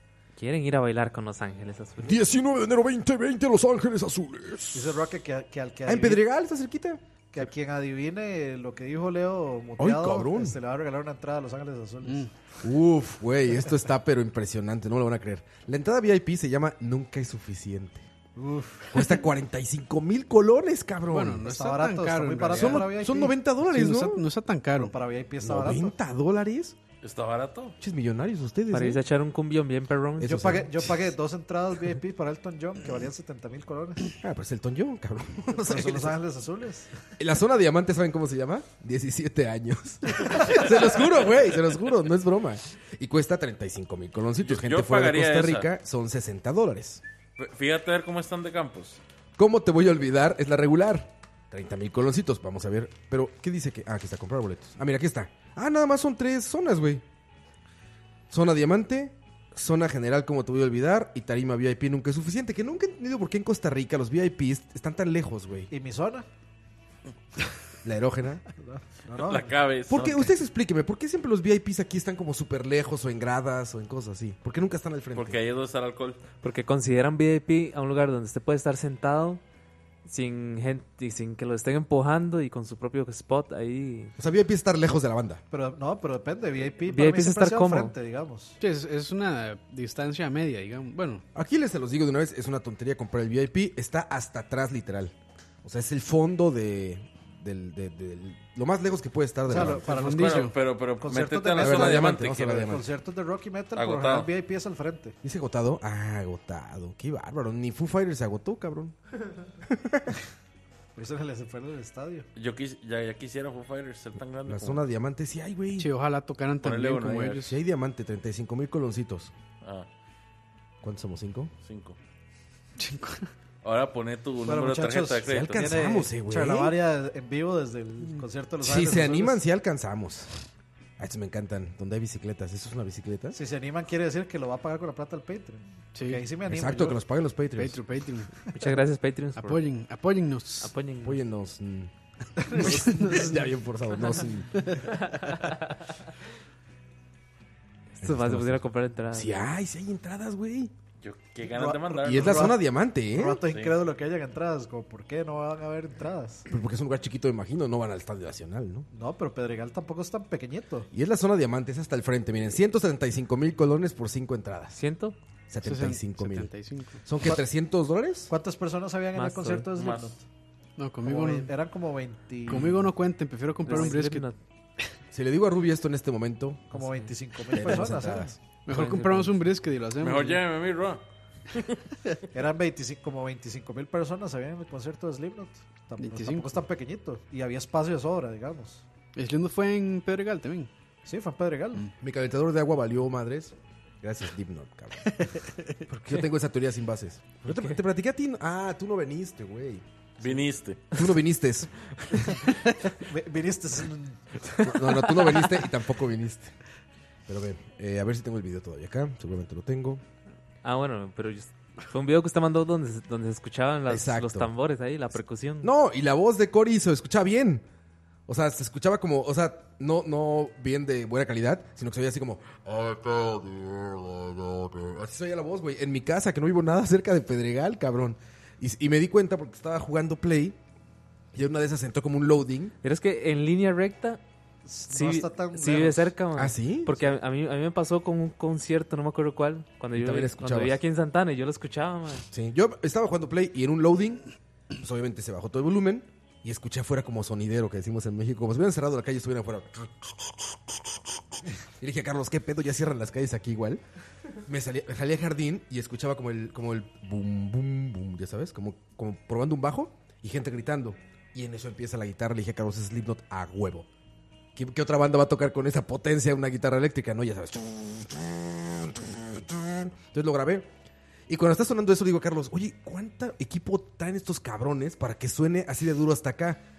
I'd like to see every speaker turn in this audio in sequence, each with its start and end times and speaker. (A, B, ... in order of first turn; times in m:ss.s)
0:00.4-0:02.2 A
0:02.0-0:05.0 B
0:04.7-0:06.2 C
0:05.9-0:07.0 B
0:07.3-0:12.3 C
0:09.8-0:10.6 B
0:12.0-0:12.3 D
0:12.6-0:18.1 B
0:18.4-0:19.0 C
0:18.9-0:21.5 B
0:21.1-0:25.0 D
0:21.4-0:23.3 C
0:22.5-0:24.2 B
0:24.8-0:25.9 C
0:25.4-0:26.8 B
0:27.0-0:27.8 E
0:27.8-0:29.0 B
0:28.7-0:30.6 A
0:30.2-0:31.0 B
0:30.2-0:34.1 C
0:34.2-0:36.2 B
0:35.5-0:36.9 C
0:37.2-0:47.0 B
0:44.4-0:45.7 E
0:47.4-0:49.0 E
0:49.4-0:57.0 B
0:58.3-1:05.7 B
1:05.7-1:06.3 C
1:07.8-1:08.4 B
1:08.6-1:09.6 C
1:09.1-1:10.3 E
1:09.9-1:15.4 B
1:15.1-1:16.2 E
1:16.4-1:19.4 A
1:20.1-1:24.2 A
1:24.2-1:25.4 B
1:25.5-1:28.6 C
1:26.9-1:27.9 A
1:28.6-1:31.2 D
1:31.4-1:39.9 B
1:39.5-1:45.2 C
1:39.5-1:40.6 D
1:39.9-1:42.7 E
1:41.6-1:42.9 B
1:43.8-1:44.3 E
1:45.2-1:49.0 B
1:49.6-1:50.2 B
1:51.0-1:52.3 C
1:52.4-1:54.8 E
1:54.4-1:55.9 B
1:55.8-1:57.6 D
1:56.6-1:57.5 E
1:57.4-1:59.3 B
1:59.6-1:59.9 E
2:00.8-2:01.5 B
2:01.6-2:02.0 E
2:02.8-2:03.3 D
2:03.6-2:05.7 E
2:04.4-2:09.4 C
2:05.3-2:06.8 B
2:08.6-2:10.3 B
2:11.0-2:13.4 B
2:13.3-2:17.0 C
2:16.0-2:17.0 D
2:16.5-2:17.8 B
2:17.6-2:18.3 D
2:18.5-2:19.6 A
2:19.4-2:20.7 D
2:20.6-2:21.2 A
2:21.0-2:21.9 B
2:22.5-2:23.5 D
2:22.5-2:24.6 B
2:24.6-2:25.5 D
2:28.0-2:29.4 A
2:28.0-2:30.7 B
2:31.0-2:32.6 E
2:31.4-2:36.5 C
2:32.0-2:33.4 B
2:33.5-2:33.8 E
2:36.5-2:38.9 B
2:38.9-2:40.9 C
2:40.9-2:44.8 B
2:44.8-2:45.2 A
2:45.5-2:46.5 B
2:45.6-2:47.0 D
2:47.0-2:48.3 B
2:48.3-2:50.2 C
2:49.2-2:49.7 A
2:49.8-2:50.1 E
2:50.8-2:51.5 D
2:51.0-2:52.9 C
2:52.5-2:54.3 D
2:53.7-2:54.4 A
2:55.1-2:56.8 B
2:56.7-2:58.3 C
2:56.8-2:57.1 A
2:57.5-2:58.4 B
2:58.7-3:00.4 D
2:58.7-2:59.4 A
3:00.0-3:01.0 E
3:02.3-3:08.8 C
3:06.0-3:06.6 D
3:09.2-3:10.7 D
3:11.1-3:11.8 C
3:12.0-3:15.1 B
3:15.0-3:15.7 D
3:15.9-3:22.2 B
3:17.5-3:17.8 A
3:20.2-3:20.8 E
3:23.0-3:24.2 C
3:24.6-3:26.6 B
3:27.3-3:30.0 B
3:30.6-3:35.7 A
3:33.9-3:34.5 B
3:35.6-3:37.6 B
3:38.3-3:50.6 B
3:51.3-3:52.7 B
3:52.8-3:54.2 A
3:54.6-3:56.1 C
3:54.9-4:02.3 A
3:56.4-3:57.0 B
4:00.0-4:00.8 B
4:02.3-4:04.2 B
4:04.8-4:13.8 B
4:14.5-4:23.9 B
4:24.6-4:30.7 B
4:31.3-4:36.6 B